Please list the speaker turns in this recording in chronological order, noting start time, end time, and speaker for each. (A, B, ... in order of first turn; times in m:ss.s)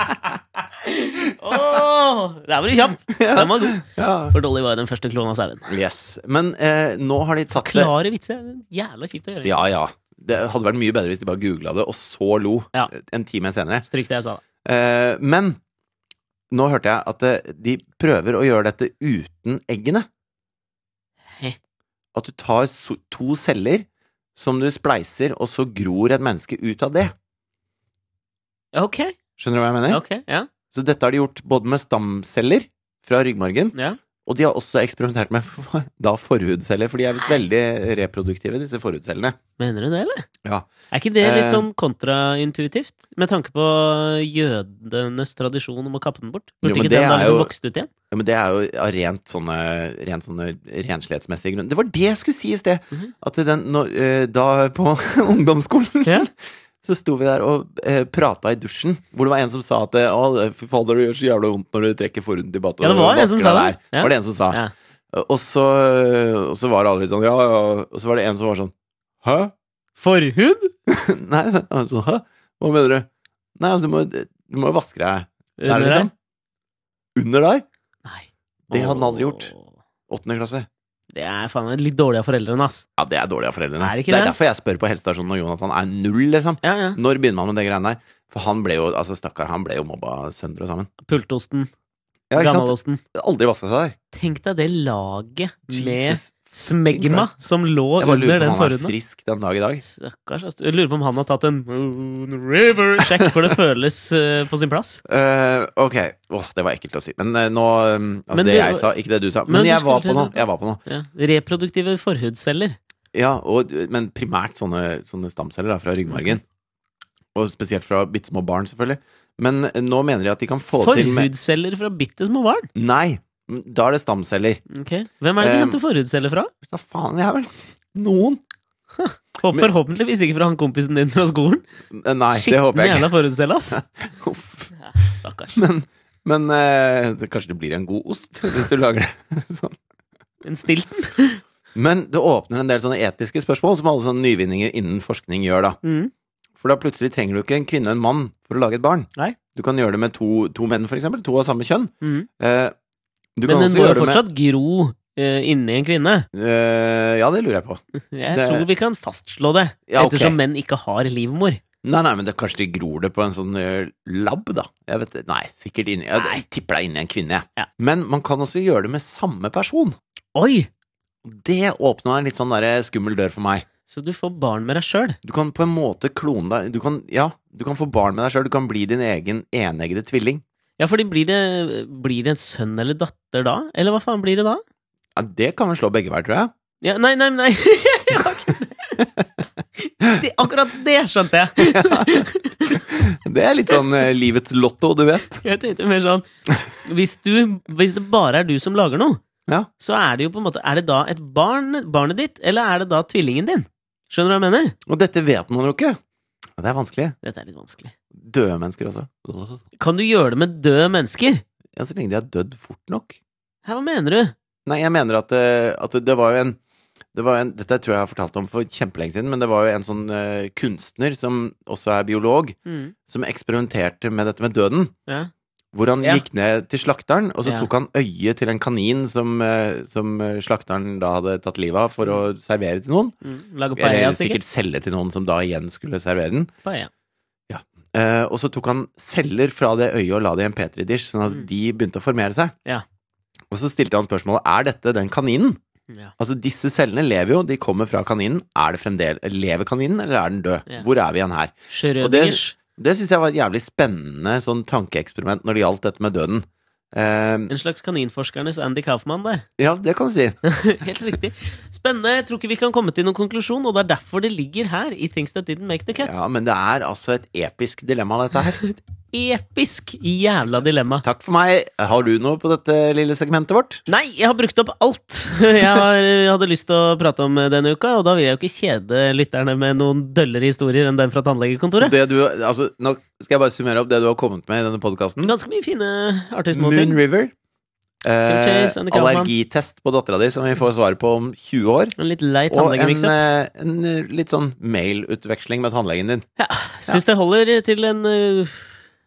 0:00.8-0:05.7 A
0:03.1-0:04.3 B
0:05.7-0:07.9 B
0:07.5-0:09.6 A
0:09.4-0:13.8 B
0:13.8-0:14.4 A
0:14.6-0:15.6 B
0:16.5-0:20.0 B
0:22.1-0:27.1 B
0:28.7-0:29.2 A
0:29.4-0:30.0 B
0:29.9-0:30.5 A
0:30.7-0:33.7 B
0:34.2-0:39.4 B
0:39.6-0:40.3 A
0:40.4-0:40.7 B
0:40.9-0:47.9 A
0:41.2-0:41.6 B
0:46.6-0:47.5 B
0:48.1-1:04.6 B
1:02.8-1:04.7 A
1:05.1-1:09.5 B
1:10.0-1:10.7 A
1:10.9-1:16.1 B
1:15.6-1:16.1 A
1:17.2-1:17.6 B
1:18.0-1:19.7 A
1:18.7-1:19.5 B
1:20.1-1:20.7 B
1:21.1-1:22.8 A
1:23.0-1:30.9 B
1:23.8-1:24.3 A
1:26.6-1:27.0 A
1:31.0-1:31.7 A
1:32.3-1:33.9 B
1:32.3-1:33.0 A
1:34.1-1:38.9 A
1:35.7-1:37.3 B
1:38.0-1:39.8 B
1:39.8-1:45.0 A
1:45.0-1:50.8 B
1:48.3-1:48.9 A
1:49.5-1:52.8 A
1:53.1-1:56.4 B
1:57.3-2:01.3 B
2:00.8-2:02.7 A
2:02.7-2:04.6 B
2:04.7-2:06.5 A
2:05.4-2:05.8 B
2:06.6-2:08.4 B
2:09.0-2:11.6 A
2:11.9-2:13.1 B
2:12.3-2:13.8 A
2:13.7-2:14.7 B
2:14.8-2:15.6 A
2:15.5-2:19.8 B
2:20.4-2:21.4 A
2:21.7-2:25.8 B
2:25.8-2:26.1 A
2:26.6-2:32.7 B
2:32.0-2:32.3 A
2:33.4-2:34.2 B
2:33.4-2:36.3 A
2:36.3-2:38.7 B
2:38.0-2:41.6 A
2:39.9-2:40.4 B
2:41.8-2:49.9 B
2:50.3-2:50.7 A
2:51.2-2:53.6 B
2:53.9-2:55.2 A
2:55.2-3:00.4 B
3:00.8-3:04.6 A
3:05.2-3:06.5 B
3:06.8-3:09.1 A
3:09.8-3:12.8 A
3:11.6-3:15.4 B
3:15.4-3:19.2 A
3:19.8-3:24.8 A
3:24.8-3:26.0 B
3:26.6-3:27.2 B
3:27.2-3:27.9 A
3:28.1-3:29.6 B
3:29.8-3:31.4 A
3:31.7-3:33.2 B
3:33.6-3:34.3 A
3:34.6-3:36.6 B
3:37.1-3:42.6 B
3:42.6-3:42.9 A
3:43.1-3:44.9 B
3:45.7-3:53.1 B
3:53.2-3:54.4 A
3:53.7-3:56.5 B
3:56.6-3:56.9 A
3:57.5-4:02.5 B
4:03.5-4:05.6 B
4:06.2-4:17.5 B
4:11.7-4:12.5 A
4:17.5-4:19.4 A
4:19.6-4:20.4 B
4:20.4-4:26.1 A
4:26.0-4:28.6 B
4:28.6-4:31.0 A
4:31.0-4:33.8 B
4:33.9-4:41.9 A
4:41.7-4:45.3 B
4:45.2-4:47.0 A
4:46.5-4:47.3 B
4:48.0-4:52.0 B
4:48.2-4:49.3 A
4:52.0-4:53.3 A
4:52.5-4:56.3 B
4:56.4-4:58.7 A